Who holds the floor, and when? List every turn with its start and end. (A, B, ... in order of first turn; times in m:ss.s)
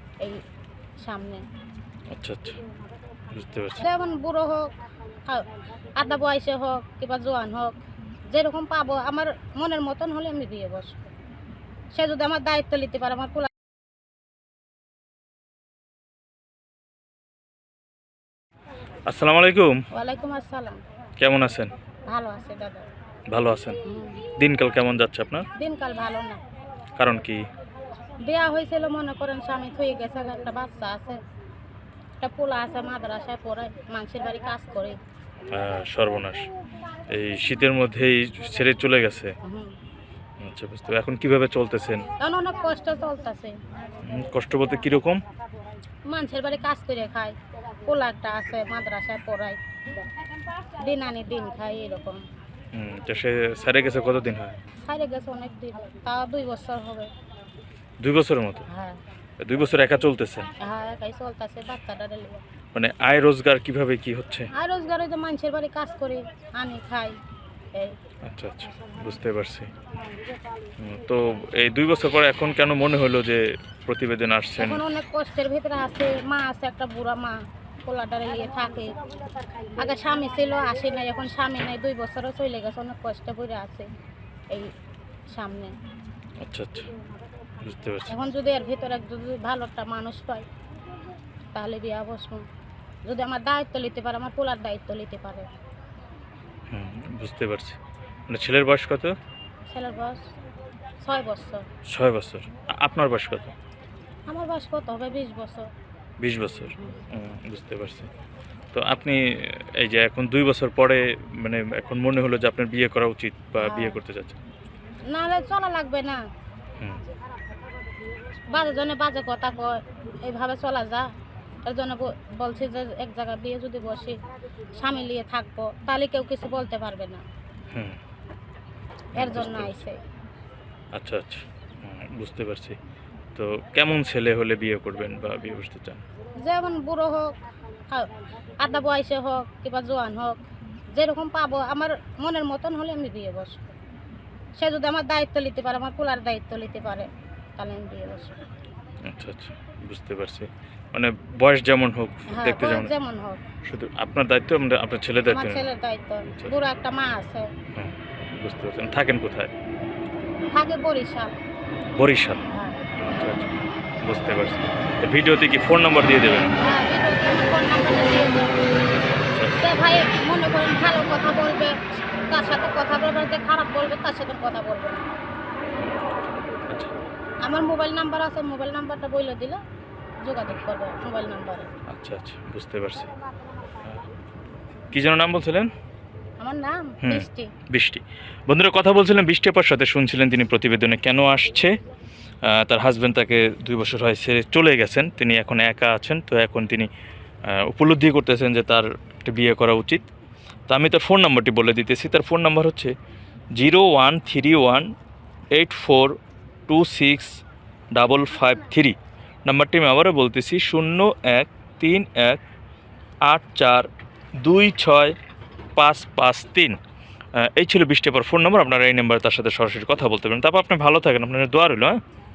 0:01.0-0:01.4 A
0:02.1-0:02.6 B
0:03.3-0:03.9 B
0:03.8-0:04.7 A
0:05.3-0:07.8 A
0:08.3-0:11.0 A
0:11.9-0:13.5 A
0:19.1-0:19.8 B
0:19.9-0:20.8 A
0:21.2-0:21.7 B
0:22.1-0:22.9 A
0:23.3-0:25.5 B
0:23.8-0:24.3 A
0:25.6-0:26.4 A
0:27.0-0:27.5 B
0:28.2-0:31.2 A
0:32.2-0:35.0 A
0:35.5-0:36.5 B
0:37.1-0:39.4 B
0:39.4-0:39.7 A
0:40.4-0:42.1 B
0:42.2-0:43.6 A
0:44.0-0:45.2 B
0:46.1-0:49.6 A
0:50.7-0:52.2 A
0:52.7-0:54.6 B
0:54.8-0:57.1 A
0:58.0-0:58.7 B
0:58.7-0:59.0 A
0:59.4-1:00.5 B
1:00.6-1:02.4 A
1:02.7-1:04.5 B
1:04.5-1:07.2 A
1:08.2-1:09.7 B
1:10.8-1:14.8 B
1:14.6-1:19.0 A
1:19.8-1:23.9 A
1:25.3-1:25.7 A
1:26.4-1:26.9 B
1:27.6-1:28.2 B
1:28.1-1:30.5 A
1:31.5-1:32.5 A
1:33.0-1:35.5 A
1:36.7-1:39.2 B
1:39.7-1:40.3 A
1:41.0-1:41.6 A
1:41.9-1:43.6 B
1:44.3-1:45.7 A
1:46.2-1:48.1 B
1:48.7-1:54.4 B
1:53.6-1:54.0 A
1:55.1-1:56.2 A
1:56.8-1:57.1 B
1:58.5-2:01.1 A
2:01.6-2:04.2 A
2:04.7-2:07.2 A
2:07.7-2:08.0 B
2:09.2-2:10.0 A
2:09.2-2:09.8 B
2:10.9-2:12.8 B
2:13.4-2:16.0 B
2:16.3-2:20.4 A
2:20.9-2:23.7 A
2:24.6-2:28.4 A
2:29.0-2:32.9 B
2:32.3-2:33.4 A
2:33.6-2:35.7 B
2:35.2-2:37.5 A
2:37.7-2:39.5 B
2:40.5-2:41.3 A
2:41.9-2:46.6 B
2:42.5-2:42.9 A
2:46.6-2:48.6 A
2:49.2-2:49.6 B
2:49.6-2:55.0 A
2:56.7-2:57.0 B
2:57.4-2:59.6 A
3:00.2-3:01.7 A
3:01.9-3:03.2 B
3:04.9-3:05.7 B
3:06.4-3:07.5 A
3:07.0-3:11.8 B
3:12.4-3:16.9 B
3:17.5-3:20.1 B
3:20.7-3:22.9 B
3:23.6-3:24.9 B
3:25.5-3:26.2 B
3:26.7-3:32.4 B
3:33.3-3:33.9 B
3:34.4-3:35.2 B
3:35.8-3:36.8 B
3:37.4-3:42.0 B